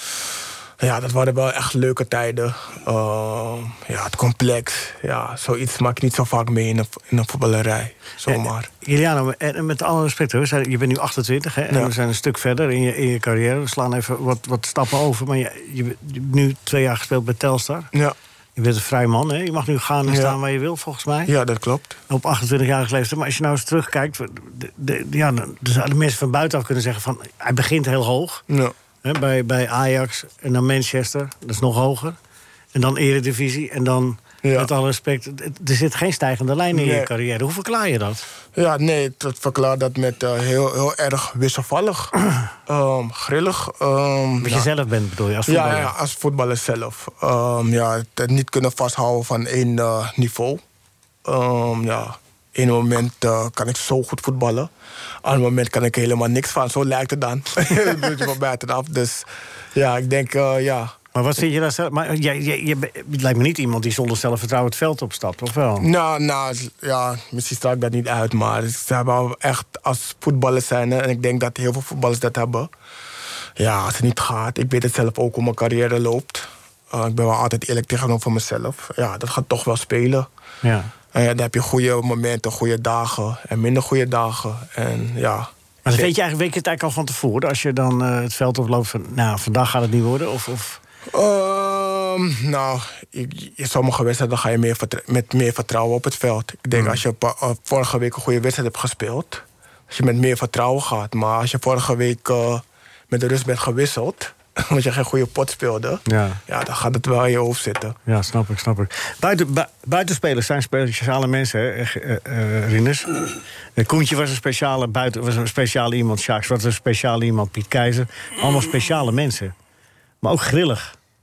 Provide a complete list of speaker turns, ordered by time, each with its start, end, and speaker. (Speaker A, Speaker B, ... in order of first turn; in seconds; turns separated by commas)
Speaker A: 0.8-8.7, Speaker B: 8.3-17.9, Speaker B: 18.6-21.3, Speaker A: 20.1-20.4, Speaker A: 21.3-22.0, Speaker B: 22.1-28.4, Speaker A: 28.5-28.7, Speaker B: 29.0-32.2, Speaker B: 32.8-38.2, Speaker A: 34.4-34.7, Speaker A: 36.7-37.1, Speaker A: 38.5-42.1, Speaker A: 42.7-44.7, Speaker B: 44.4-45.9, Speaker A: 45.5-50.6, Speaker A: 51.2-54.7, Speaker A: 55.2-60.9, Speaker B: 61.1-65.9, Speaker A: 65.8-72.7, Speaker A: 73.6-80.3, Speaker B: 80.6-80.9, Speaker A: 81.1-86.1, Speaker B: 85.9-90.8, Speaker A: 91.1-108.0, Speaker B: 96.7-97.0, Speaker B: 106.1-106.4, Speaker B: 108.1-113.1, Speaker B: 113.8-119.5, Speaker B: 120.2-121.0